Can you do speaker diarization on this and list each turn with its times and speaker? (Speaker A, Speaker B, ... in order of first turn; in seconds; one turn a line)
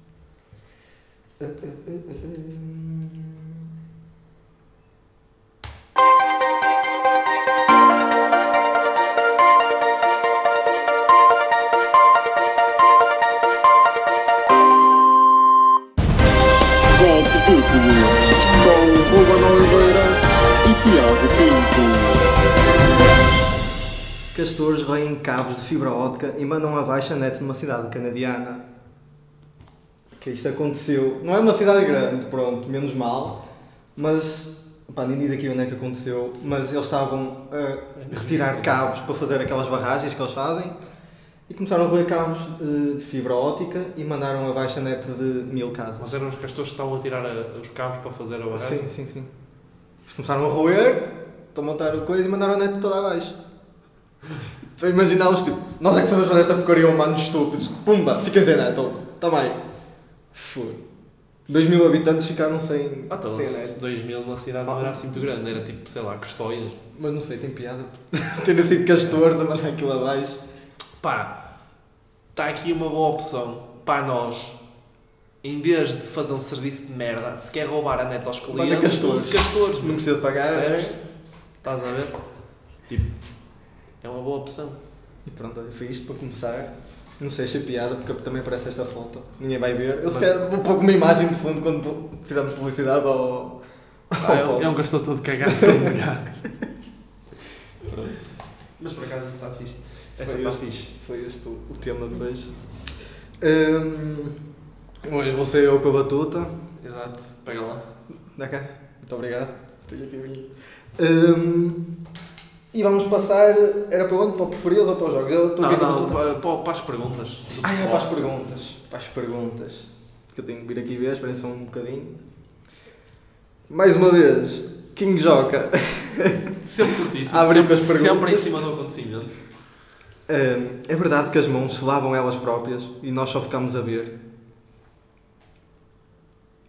Speaker A: 1.4-3.6
Speaker B: 16.9-22.3
Speaker A: 24.3-28.6
Speaker A: 30.2-33.4
Speaker A: 34.0-40.8
Speaker C: 38.0-38.8
Speaker A: 41.5-46.1
Speaker C: 46.0-48.9
Speaker A: 48.5-49.3
Speaker A: 50.1-53.4
Speaker A: 54.8-59.6
Speaker A: 60.3-60.8
Speaker A: 61.5-63.8
Speaker C: 63.1-66.8
Speaker A: 64.7-65.0
Speaker A: 67.0-70.4
Speaker C: 71.0-71.4
Speaker C: 72.3-74.6
Speaker C: 75.4-81.0
Speaker A: 78.5-81.0
Speaker C: 81.6-82.2
Speaker C: 82.9-83.1
Speaker C: 84.0-84.8
Speaker A: 85.3-94.8
Speaker C: 94.2-96.4
Speaker A: 97.9-98.2
Speaker C: 98.8-100.9
Speaker A: 100.2-102.6
Speaker A: 103.4-104.4
Speaker A: 105.0-106.5
Speaker C: 106.8-107.8
Speaker A: 108.3-111.9
Speaker A: 112.7-116.2
Speaker C: 115.6-118.1
Speaker A: 117.6-122.2
Speaker A: 123.7-128.6
Speaker C: 126.4-129.4
Speaker A: 130.3-134.1